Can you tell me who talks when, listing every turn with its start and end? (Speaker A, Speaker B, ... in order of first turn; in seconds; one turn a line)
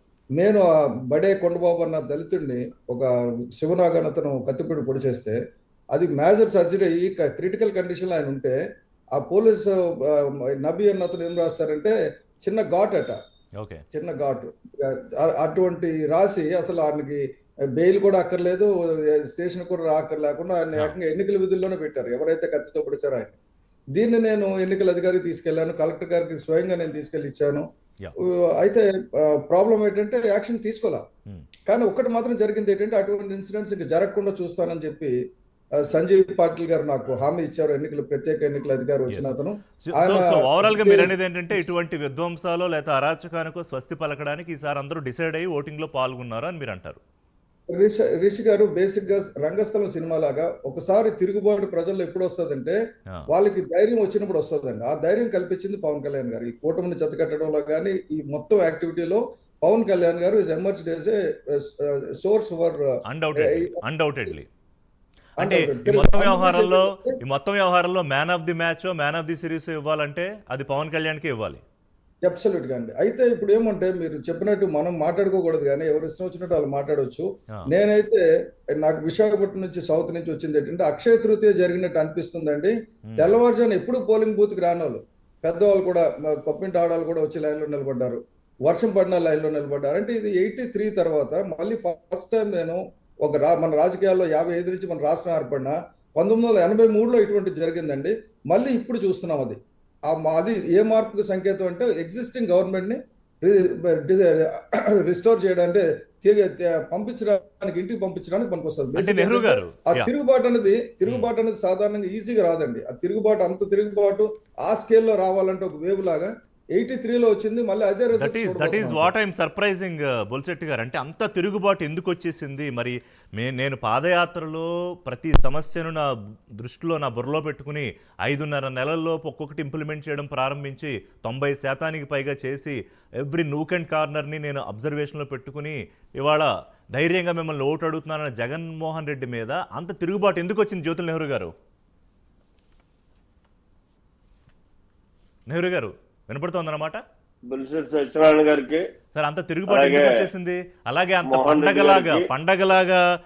Speaker A: 0.3-5.4
Speaker A: 5.9-8.6
Speaker A: 9.1-11.9
Speaker A: 12.4-13.2
Speaker B: 13.6-13.8
Speaker A: 13.9-17.2
Speaker A: 17.8-23.3
Speaker A: 23.9-27.6
Speaker A: 28.2-31.0
Speaker A: 31.7-35.1
Speaker A: 35.8-41.1
Speaker B: 39.8-47.0
Speaker A: 47.7-52.8
Speaker A: 53.3-62.8
Speaker B: 63.1-64.5
Speaker A: 63.4-63.8
Speaker A: 65.4-67.2
Speaker B: 65.4-71.6
Speaker A: 72.2-78.2
Speaker A: 78.8-99.6
Speaker B: 83.1-83.4
Speaker A: 100.1-119.1
Speaker B: 109.0-110.1
Speaker B: 118.2-141.5
Speaker B: 145.5-147.0
Speaker C: 147.4-148.9
Speaker B: 149.1-153.0
Speaker C: 149.7-150.3
Speaker C: 151.2-152.3